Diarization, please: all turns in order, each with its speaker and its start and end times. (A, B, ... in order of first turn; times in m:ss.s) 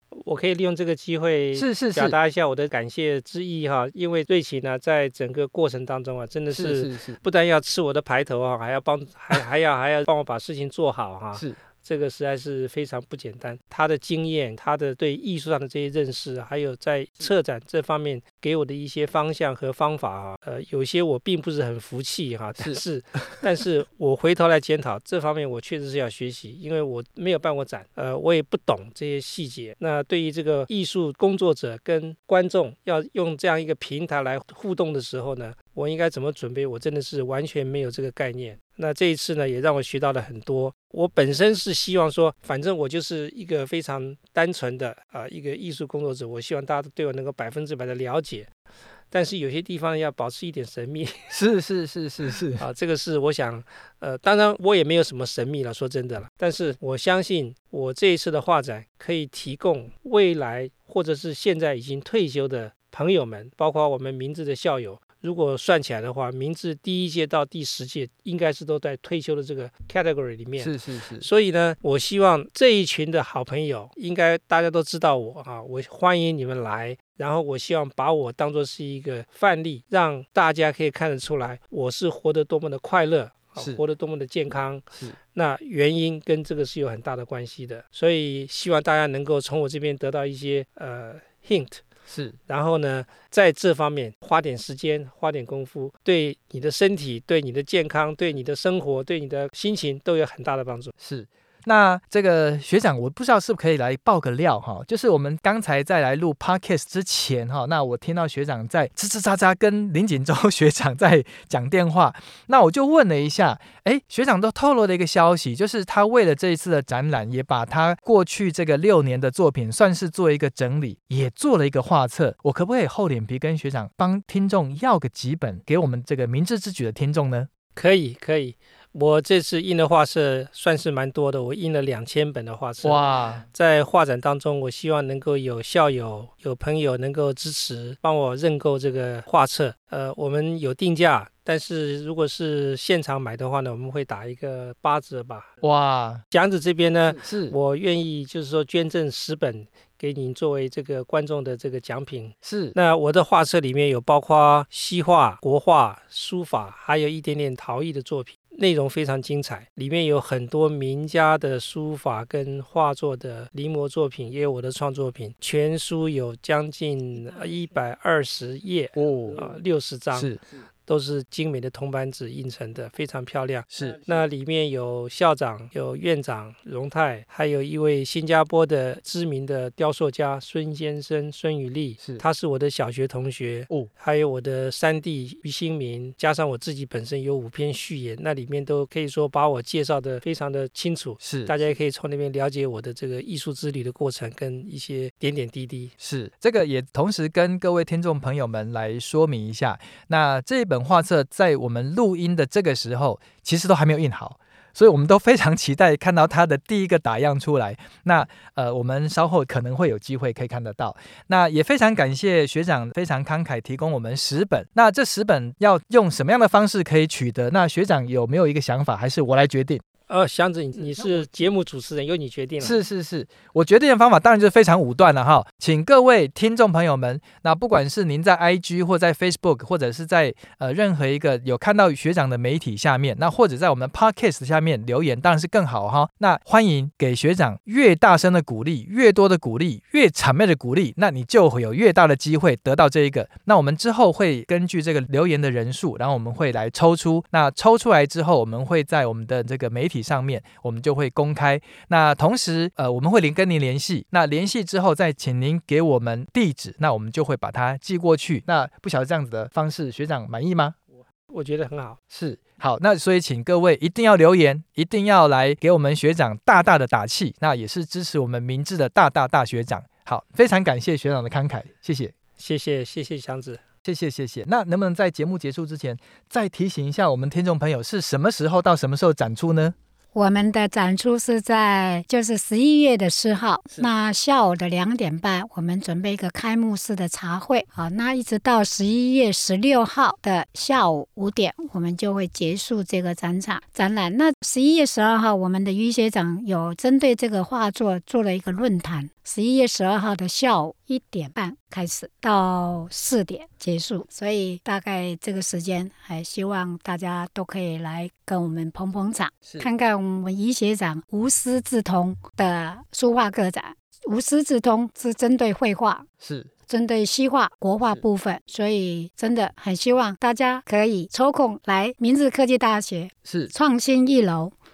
0:00.2-0:48.5 A
0:01.6-0:02.2 B
0:06.5-0:07.2 B
0:49.1-0:51.4 A
0:51.3-0:52.6 B
0:52.6-1:31.8 A
1:10.6-1:11.3 B
1:32.1-1:32.4 B
1:32.5-1:40.9 A
1:41.0-2:07.5 B
2:07.8-2:25.5 A
2:12.8-2:13.5 B
2:25.6-2:26.2 B
2:26.3-2:50.3 A
2:27.1-2:27.6 B
2:32.4-2:32.8 B
2:49.0-2:49.4 B
2:50.9-3:15.9 A
2:53.7-2:54.0 B
3:11.2-3:11.5 B
3:16.0-3:39.8 B
3:40.1-3:42.8 A
3:42.6-4:20.8 B
4:21.3-4:22.0 A
4:22.1-4:32.2 B
4:32.4-4:33.6 A
4:33.8-4:39.8 B
4:40.1-5:16.1 C
5:16.2-5:16.5 B
5:16.7-5:24.6 C
5:23.2-5:23.5 B